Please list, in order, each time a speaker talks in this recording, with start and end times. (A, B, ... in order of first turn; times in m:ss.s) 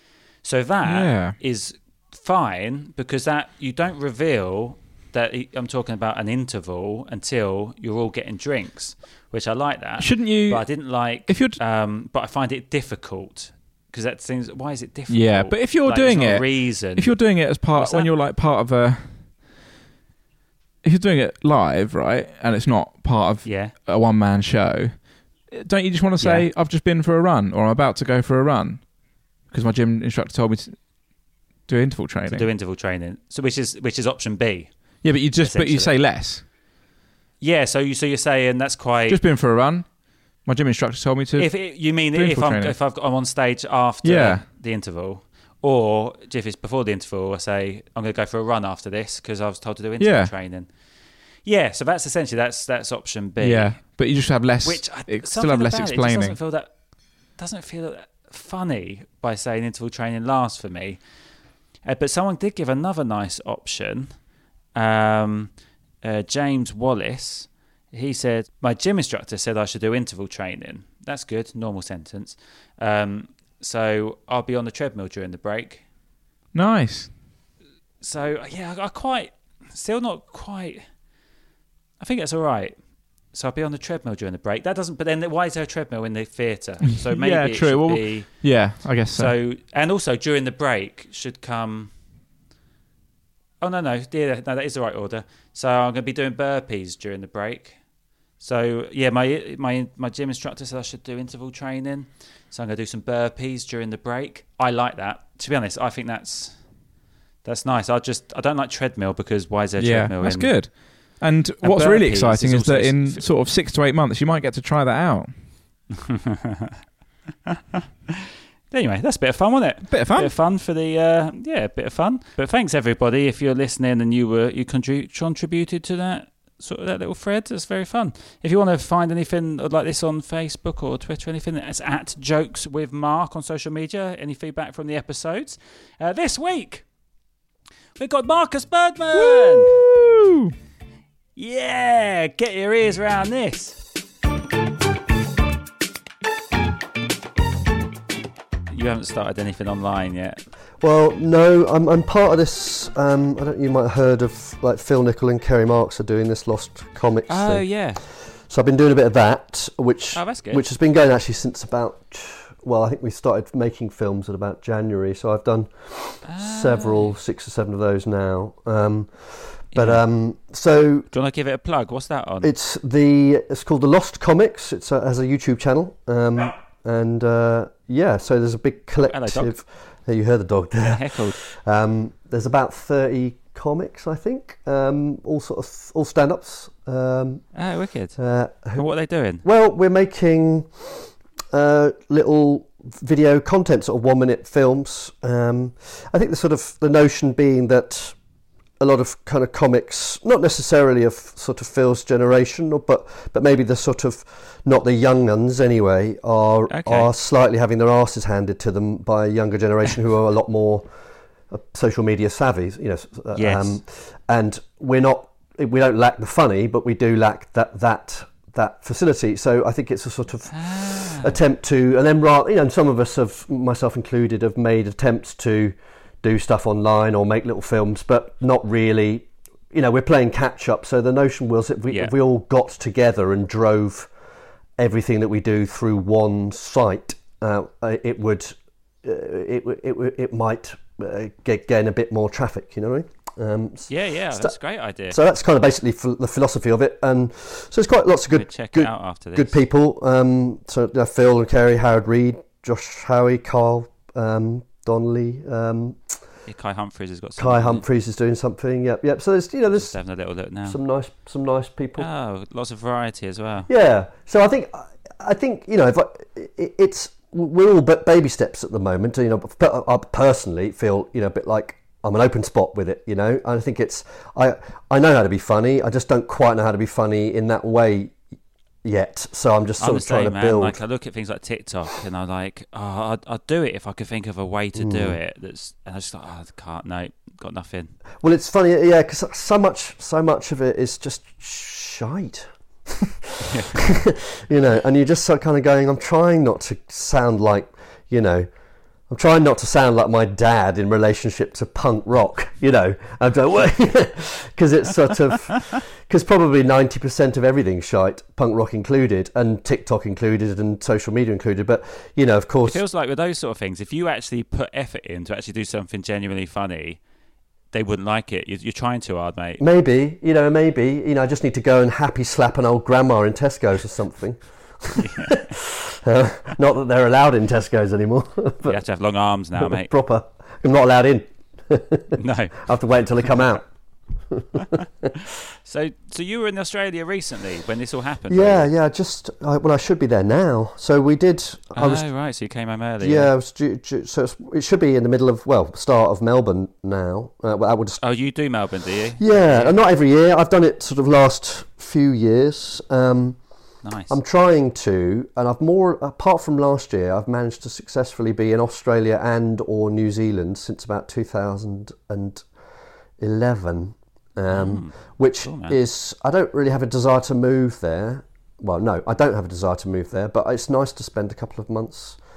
0:00.4-0:18.1 A
0:00.9-0:01.4 B
0:10.0-0:11.6 B
0:15.1-0:19.5 B
0:20.8-0:31.0 B
0:23.4-0:23.8 A
0:26.2-0:26.5 A
0:31.7-0:32.5 B
0:32.3-0:35.9 A
0:35.0-0:36.4 B
0:37.4-0:39.2 A
0:39.1-0:42.8 B
0:41.4-1:15.8 A
0:44.0-0:44.4 B
0:50.0-0:50.3 B
0:53.4-0:56.4 B
1:16.5-1:17.2 B
1:18.0-1:20.9 A
1:22.0-1:32.0 A
1:27.0-1:29.4 B
1:33.6-1:37.8 A
1:38.4-1:46.7 A
1:47.4-1:50.8 A
1:49.8-1:55.4 B
1:51.6-1:53.3 A
1:56.0-1:56.7 A
1:58.7-2:16.9 A
1:59.9-2:00.3 B
2:18.0-2:19.8 A
2:19.2-2:20.5 B
2:21.4-2:23.8 A
2:28.7-2:30.4 A
2:30.8-2:51.1 C
2:37.3-2:38.0 A
2:40.1-2:40.6 A
2:46.2-2:47.2 A
2:49.7-2:50.0 A
2:51.1-2:52.5 A
2:52.4-3:07.5 C
2:59.0-2:59.6 A
3:00.8-3:01.4 A
3:07.5-3:08.2 A
3:08.2-3:08.9 C
3:08.7-3:09.4 A
3:09.4-3:18.2 C
3:18.8-3:30.9 C
3:26.7-3:27.1 A
3:31.5-3:54.1 C
3:33.4-3:33.8 A
3:40.5-3:41.4 A
3:54.8-4:04.6 C
4:03.9-4:05.2 A
4:05.1-4:16.2 C
4:08.3-4:09.6 A
4:16.5-4:17.8 A
4:17.4-4:19.9 C
4:19.7-4:20.8 A
4:20.6-4:22.1 C
4:22.0-4:23.7 A
4:23.7-4:38.2 C
4:38.8-4:40.8 C
4:39.8-4:48.0 A
4:44.8-4:45.2 C
4:48.2-4:58.5 C
4:53.4-4:53.9 A
4:59.1-5:12.8 C
5:12.6-5:17.0 A
5:17.7-5:19.6 A
5:19.6-5:28.8 C
5:25.0-5:25.3 A
5:28.6-5:29.9 A
5:29.6-5:33.7 C
5:32.2-5:32.6 A
5:34.3-5:35.1 C
5:35.6-5:38.7 A
5:38.3-5:42.0 C
5:41.8-5:43.3 A
5:43.0-5:48.0 C
5:48.0-5:49.8 A
5:49.2-5:53.4 C
5:53.8-5:54.2 A
5:54.1-6:02.4 C
6:03.2-6:12.2 C
6:04.5-6:05.8 A